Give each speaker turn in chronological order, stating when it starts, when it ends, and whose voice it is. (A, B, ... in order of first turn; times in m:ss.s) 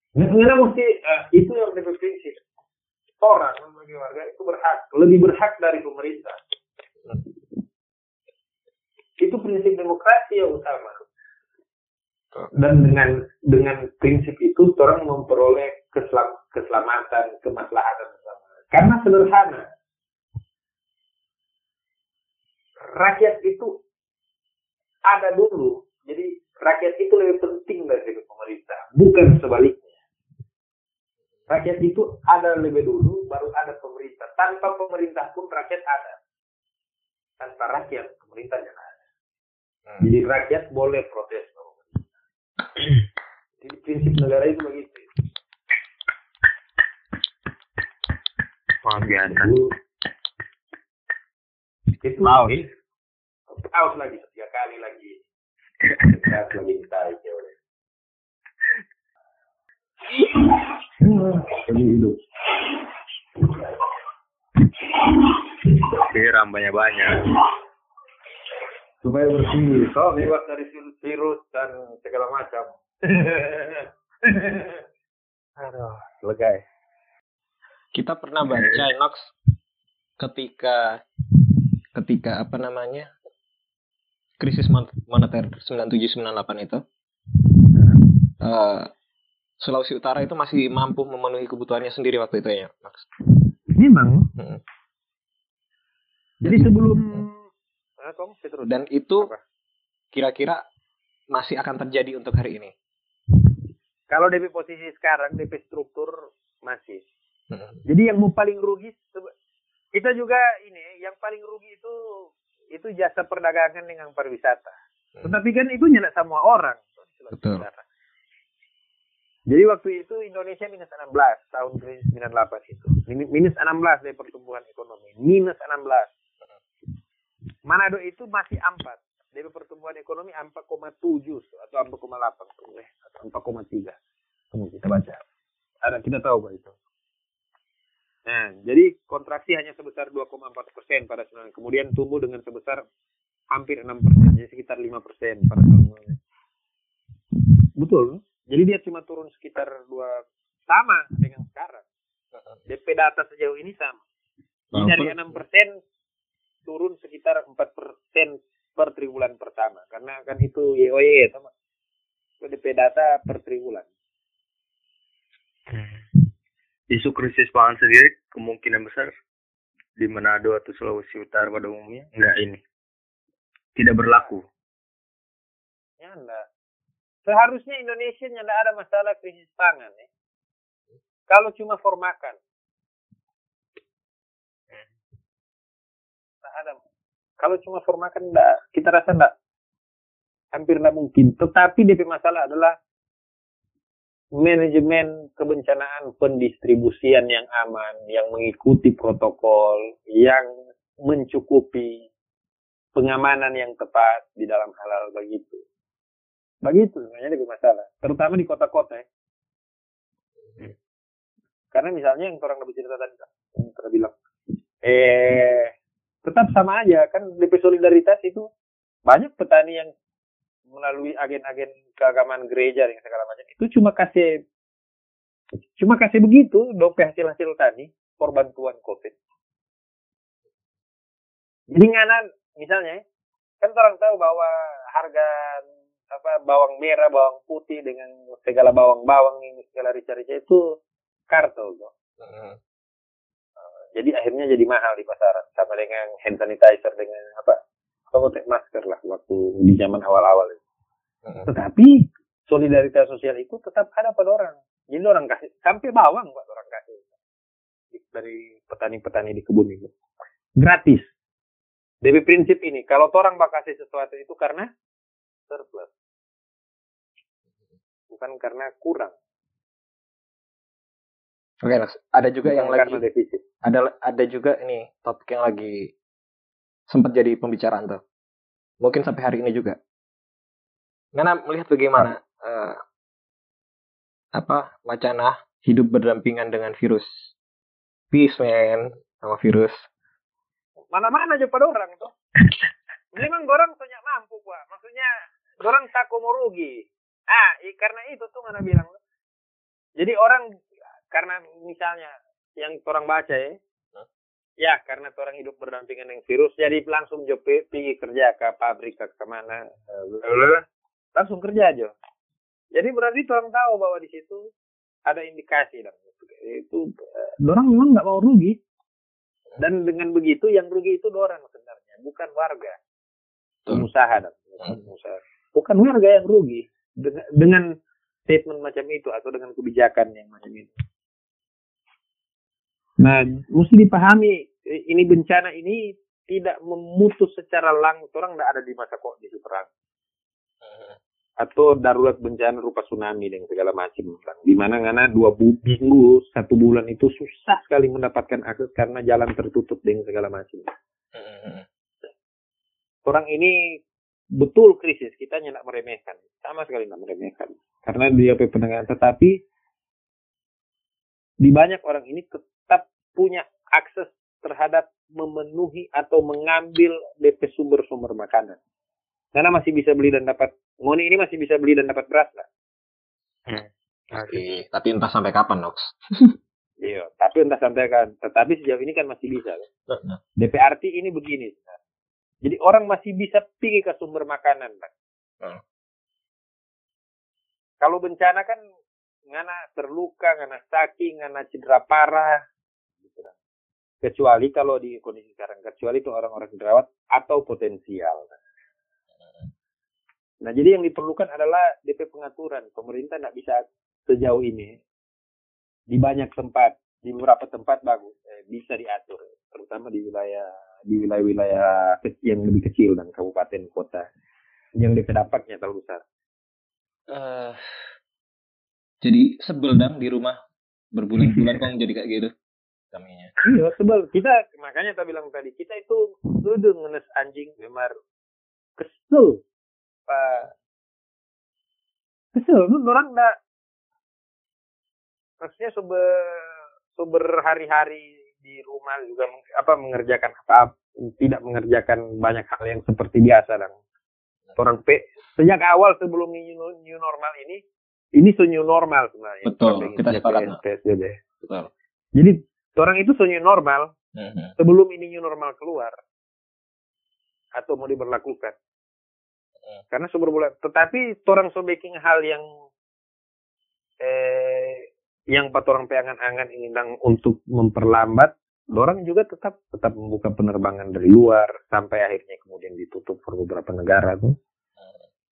0:00.2-0:02.4 A
0:03.2-0:06.4 A
0:09.2-0:11.0 A
0:12.5-0:19.7 A
0:22.9-0:23.8 A
0:25.0-0:29.9 A
0:31.5-0:36.2 A
0:37.4-0:38.9 A
0:40.0-0:41.9 A
0:43.6-0:45.1 A
0:48.8-0:49.5 B
0:49.0-0:49.7 A
0:52.0-0:52.6 A
0:52.2-0:52.6 C
0:53.5-0:55.2 A
0:56.1-0:57.5 A
1:01.0-1:02.2 A
1:06.0-1:07.3 B
1:09.0-1:14.8 A
1:15.6-1:16.6 A
1:17.9-1:19.3 C
1:18.5-1:18.8 B
1:20.2-1:21.0 C
1:21.9-1:23.1 C
1:24.4-1:26.8 C
1:28.4-1:28.9 C
1:29.6-1:33.1 C
1:33.7-1:34.3 A
1:36.4-1:37.5 A
1:38.0-1:39.4 A
1:38.6-1:39.3 C
1:40.1-1:40.6 C
1:41.3-1:42.7 C
1:44.1-1:47.0 A
1:47.5-1:47.8 C
1:47.8-1:49.3 A
1:49.9-1:57.8 A
1:57.3-1:57.6 C
1:59.5-2:06.1 A
2:07.6-2:14.0 A
2:14.5-2:15.2 A
2:15.8-2:16.7 A
2:18.2-2:22.8 A
2:23.5-2:26.2 A
2:27.8-2:31.8 A
2:32.7-2:34.0 A
2:34.7-2:35.2 C
2:34.7-2:35.8 A
2:36.6-2:41.5 A
2:42.4-2:43.9 A
2:45.7-2:46.0 B
2:46.9-2:49.1 B
2:50.0-2:52.6 B
2:53.8-2:54.4 B
2:56.0-2:56.5 A
2:57.2-3:00.1 A
3:01.3-3:02.4 A
3:06.4-3:06.8 A
3:07.4-3:09.3 A
3:10.5-3:12.8 A
3:14.4-3:20.5 A
3:21.0-3:22.1 A
3:22.9-3:25.6 A
3:26.6-3:29.0 A
3:31.7-3:34.1 A
3:34.8-3:35.7 A
3:36.2-3:38.5 A
3:39.1-3:39.9 A
3:40.7-3:44.4 A
3:45.8-3:49.1 A
3:51.7-3:53.0 A
3:53.6-4:00.8 A
4:01.3-4:01.9 A
4:02.2-4:02.6 C
4:03.9-4:07.6 A
4:08.1-4:10.6 A
4:11.4-4:17.0 A
4:17.9-4:19.9 A
4:20.6-4:21.1 A
4:22.0-4:24.7 A
4:25.5-4:25.9 A
4:28.1-4:29.1 A
4:31.6-4:33.0 C
4:32.4-4:33.4 A
4:33.6-4:35.9 C
4:36.9-4:38.0 C
4:38.8-4:39.8 C
4:41.1-4:42.8 C
4:44.3-4:47.3 C
4:48.1-4:49.9 C
4:50.9-4:52.1 A
4:53.1-4:59.0 A
5:00.0-5:03.6 A
5:04.6-5:11.9 A
5:12.7-5:14.5 A
5:15.0-5:18.6 A
5:19.6-5:22.8 A
5:23.7-5:27.7 A
5:28.3-5:30.7 A
5:33.0-5:39.7 A
5:40.6-5:41.0 C
5:41.4-5:50.7 A
5:51.1-5:51.6 C
5:53.0-5:53.8 A
5:54.4-5:59.4 A
6:01.4-6:08.6 A
6:09.3-6:12.4 A
6:13.5-6:14.4 B
6:14.1-6:16.3 C
6:16.8-6:19.7 A
6:19.9-6:20.2 C
6:20.4-6:21.8 A
6:22.4-6:24.9 A
6:27.8-6:28.6 A
6:29.3-6:32.4 A
6:33.0-6:33.3 A
6:34.0-6:38.4 A
6:40.4-6:44.8 A
6:45.9-6:54.1 A
6:54.8-6:56.0 A
6:57.1-6:57.9 C
6:59.0-7:00.4 C
7:00.9-7:02.3 C
7:02.9-7:03.3 C
7:03.4-7:07.9 A
7:08.8-7:09.4 A
7:10.1-7:10.5 A
7:12.3-7:13.4 A
7:15.4-7:23.7 A
7:24.6-7:27.6 A
7:28.2-7:31.2 A
7:29.4-7:30.6 C
7:31.4-7:31.7 C
7:32.1-7:33.9 A
7:34.2-7:34.5 C
7:34.6-7:36.0 A
7:37.5-7:38.6 A
7:39.9-7:42.4 A
7:44.0-7:54.4 A